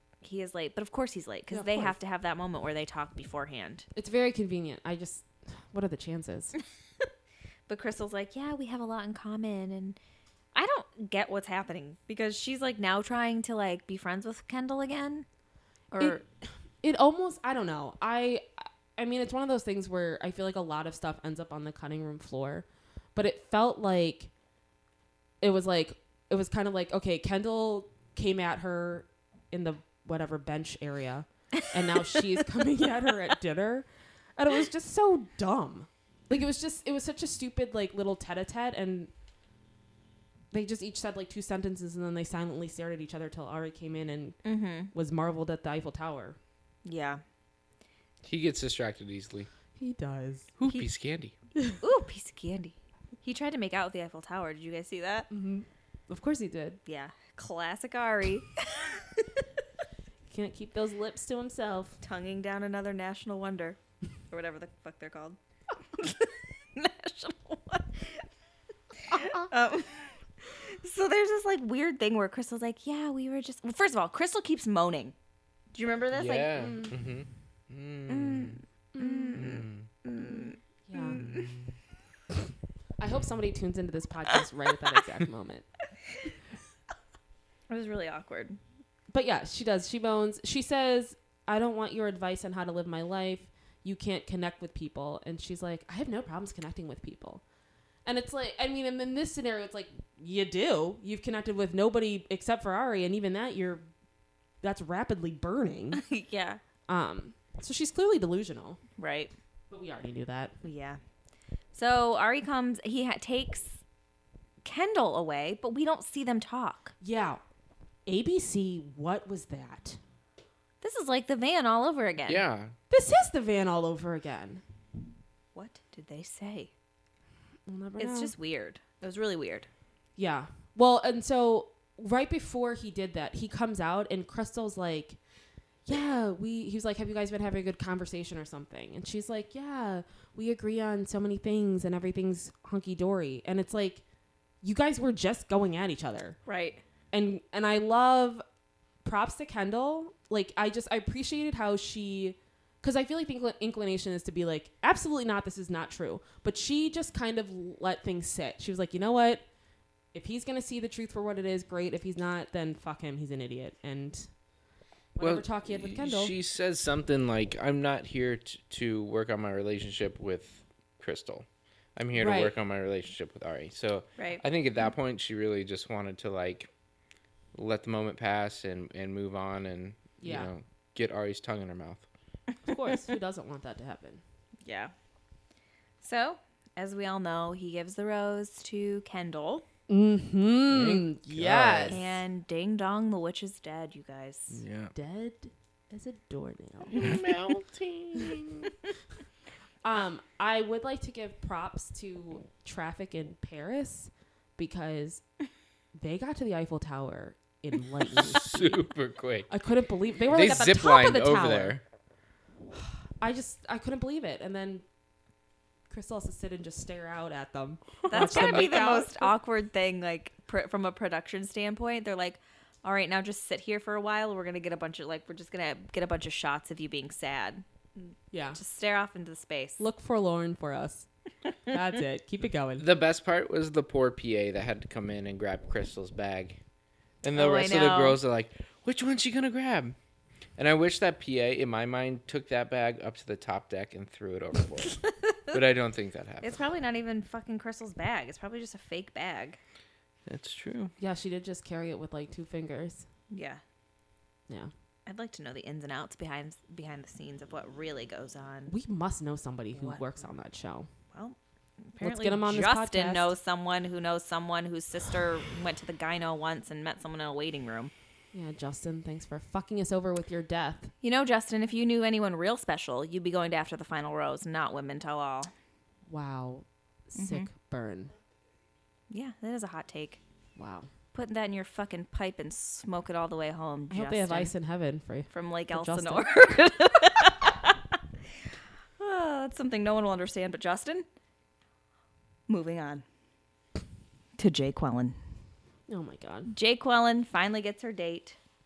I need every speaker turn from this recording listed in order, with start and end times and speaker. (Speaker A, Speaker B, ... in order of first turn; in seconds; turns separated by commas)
Speaker A: 0.2-3.9, Speaker B: 1.5-1.9, Speaker B: 3.9-6.5, Speaker A: 7.7-10.0, Speaker A: 10.5-15.2, Speaker A: 15.9-16.2, Speaker B: 16.0-16.2, Speaker B: 16.8-24.3, Speaker B: 25.4-39.1, Speaker B: 40.5-44.4, Speaker A: 44.4-44.9, Speaker B: 44.9-46.4, Speaker A: 46.8-47.2, Speaker C: 48.2-49.5, Speaker B: 49.8-50.5, Speaker C: 50.6-51.3, Speaker A: 51.8-55.3, Speaker B: 55.3-56.8, Speaker A: 56.9-59.4, Speaker B: 60.3-62.0, Speaker A: 62.0-63.8, Speaker A: 64.3-65.4, Speaker A: 65.9-68.2, Speaker A: 69.1-75.1, Speaker B: 69.2-69.4, Speaker A: 75.7-76.6, Speaker C: 76.1-78.6, Speaker B: 76.6-76.9, Speaker A: 78.1-81.5, Speaker B: 78.9-79.4, Speaker C: 79.3-79.9, Speaker B: 80.9-81.2, Speaker C: 81.2-81.6, Speaker B: 83.0-85.7, Speaker A: 87.7-88.6, Speaker B: 89.1-97.4, Speaker B: 98.0-103.8, Speaker B: 104.6-106.0, Speaker A: 105.9-106.6, Speaker B: 106.9-108.8, Speaker A: 109.0-109.3, Speaker B: 109.7-110.5, Speaker A: 110.6-111.0, Speaker A: 111.7-113.8, Speaker A: 114.6-116.9, Speaker B: 117.0-117.4, Speaker B: 118.0-120.0, Speaker A: 120.8-122.4, Speaker C: 122.3-122.7, Speaker B: 122.9-124.6, Speaker A: 125.5-126.7, Speaker B: 127.7-128.3, Speaker A: 128.0-129.7, Speaker B: 130.2-135.2, Speaker B: 135.8-144.0, Speaker B: 144.6-146.4, Speaker A: 146.4-146.8, Speaker B: 147.1-148.4, Speaker B: 149.0-159.4, Speaker B: 160.1-164.3, Speaker B: 165.2-166.3, Speaker C: 165.2-176.7, Speaker B: 172.1-172.5, Speaker C: 177.5-182.0, Speaker B: 180.2-180.5, Speaker B: 182.6-184.2, Speaker A: 182.7-183.0, Speaker A: 184.6-184.9, Speaker A: 186.0-189.7, Speaker B: 189.9-192.0, Speaker C: 190.7-192.0, Speaker A: 191.9-194.6, Speaker C: 194.5-194.9, Speaker B: 194.9-197.2, Speaker C: 196.9-198.7, Speaker B: 199.8-205.2, Speaker B: 205.9-208.9, Speaker C: 208.1-209.5, Speaker B: 209.5-211.8, Speaker C: 210.3-211.8, Speaker B: 212.8-214.8, Speaker B: 215.9-219.3, Speaker C: 218.1-218.8, Speaker A: 218.1-229.8, Speaker B: 228.3-228.6, Speaker B: 229.8-231.1, Speaker B: 231.7-232.8, Speaker C: 232.8-236.6, Speaker C: 237.2-239.9, Speaker A: 237.3-238.2, Speaker C: 240.6-246.6, Speaker A: 245.0-245.6, Speaker A: 246.4-249.6, Speaker C: 250.2-250.9, Speaker B: 251.0-253.0, Speaker A: 253.3-253.6, Speaker A: 255.1-258.7, Speaker B: 258.7-260.9, Speaker A: 259.8-260.0, Speaker A: 261.1-267.9, Speaker B: 262.0-263.3, Speaker B: 268.3-270.9, Speaker A: 271.0-275.5, Speaker B: 276.1-278.1, Speaker A: 277.1-277.5, Speaker A: 279.1-280.2, Speaker B: 280.6-280.9, Speaker A: 281.1-284.5, Speaker B: 283.9-286.3, Speaker A: 285.3-287.9, Speaker A: 289.0-291.0, Speaker A: 292.5-293.0, Speaker A: 294.4-295.2, Speaker B: 295.9-296.5, Speaker A: 296.5-298.4